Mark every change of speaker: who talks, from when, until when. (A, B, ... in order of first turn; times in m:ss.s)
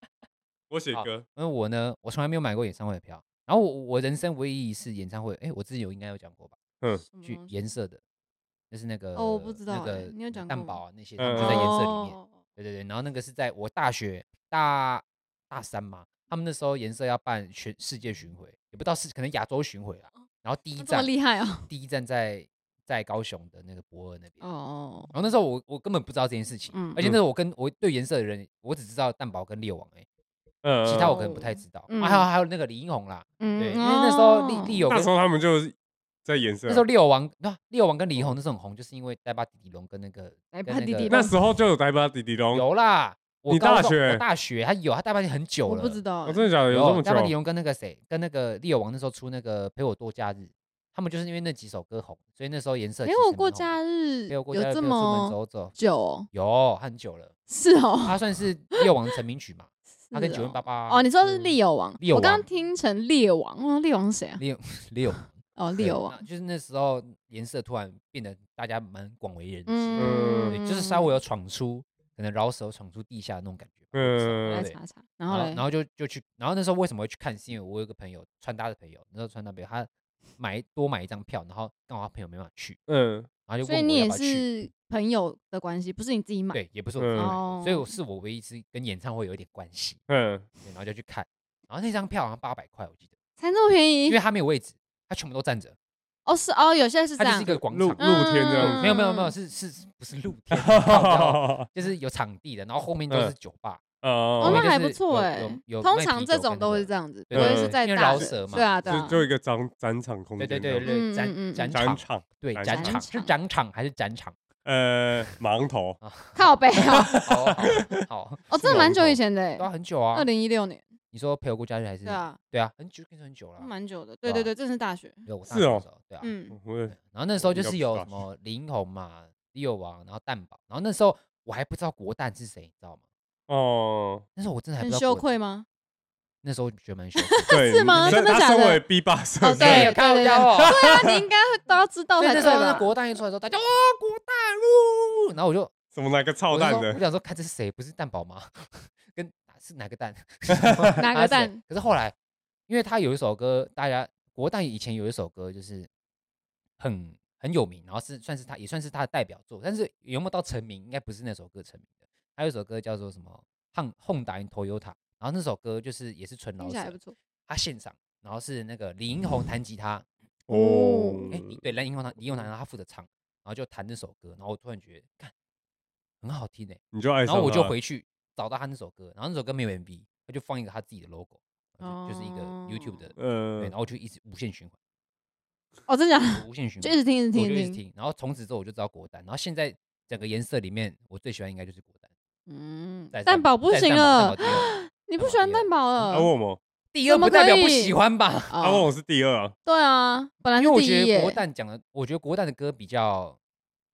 0:00.7-0:01.2 A
0:00.9-0:06.6 B
0:07.1-0:07.5 C
0:07.2-0:08.0 B
0:08.7-0:21.1 B
0:09.1-0:10.8 C
0:11.2-0:11.8 A
0:11.4-0:12.3 C
0:20.8-0:21.7 C
0:21.7-0:24.4 B
0:24.4-0:25.1 C
0:25.1-0:30.0 B
0:26.7-0:27.0 C
0:30.6-0:31.2 A
0:30.8-0:35.1 B
0:31.0-0:32.2 C
0:33.4-0:34.8 C
0:34.9-0:35.7 A
0:36.2-0:36.8 A
0:36.7-0:41.3 B
0:40.5-0:41.3 C
0:41.1-0:42.6 A
0:42.5-0:46.0 B
0:43.5-0:44.2 A
0:45.6-0:46.4 C
0:46.2-0:47.3 A
0:46.7-0:53.8 B
0:53.0-0:56.3 C
0:54.3-0:55.7 B
0:56.3-0:57.3 B
0:57.5-0:58.2 C
0:58.0-1:02.4 B
1:00.1-1:04.4 C
1:04.4-1:14.8 B
1:05.6-1:06.2 C
1:09.7-1:11.1 C
1:10.0-1:10.6 A
1:13.9-1:14.7 A
1:14.5-1:15.6 C
1:15.3-1:22.8 B
1:22.9-1:23.3 A
1:23.5-1:24.4 B
1:23.6-1:26.6 C
1:26.5-1:30.0 B
1:27.0-1:27.3 A
1:27.1-1:27.9 C
1:30.1-1:30.4 A
1:30.6-1:33.1 B
1:33.4-1:34.2 C
1:34.1-1:35.8 B
1:36.2-1:39.3 C
1:37.2-1:43.8 B
1:37.7-1:38.8 A
1:40.5-1:41.7 A
1:44.0-1:44.7 A
1:44.4-1:49.0 B
1:44.4-1:49.2 C
1:47.3-1:48.3 A
1:48.8-1:50.9 A
1:50.4-1:54.4 B
1:50.8-1:51.7 C
1:51.7-1:53.0 A
1:52.7-1:53.3 C
1:54.6-1:56.0 A
1:56.0-1:56.4 B
1:56.3-1:57.2 C
1:57.1-1:58.0 A
1:57.1-2:00.3 B
1:58.5-2:00.9 C
1:58.6-1:59.0 A
2:01.1-2:03.7 B
2:02.0-2:02.4 C
2:03.6-2:05.2 C
2:04.2-2:04.5 B
2:05.2-2:06.3 B
2:05.5-2:05.8 A
2:06.2-2:06.6 C
2:06.5-2:08.2 A
2:06.9-2:13.0 B
2:13.5-2:14.2 A
2:14.4-2:15.2 B
2:14.8-2:15.6 C
2:16.4-2:18.3 B
2:17.2-2:18.8 C
2:17.5-2:19.9 A
2:19.4-2:22.9 C
2:19.6-2:20.7 B
2:20.6-2:21.2 A
2:22.2-2:25.7 B
2:25.9-2:27.0 A
2:26.5-2:32.1 B
2:30.6-2:30.9 A
2:31.0-2:31.6 C
2:32.7-2:35.9 B
2:36.8-2:50.0 B
2:46.6-2:47.1 C
2:50.5-2:51.6 A
2:50.5-2:51.3 C
2:51.3-2:55.3 B
2:56.2-3:04.8 B
2:56.9-2:57.7 A
3:01.8-3:03.0 C
3:03.2-3:03.7 A
3:05.9-3:07.8 C
3:06.3-3:12.1 B
3:12.5-3:16.3 C
3:13.1-3:16.1 B
3:16.1-3:16.6 A
3:16.9-3:18.5 B
3:17.0-3:17.9 C
3:18.5-3:18.9 C
3:18.6-3:19.5 A
3:19.6-3:21.4 C
3:20.6-3:23.4 B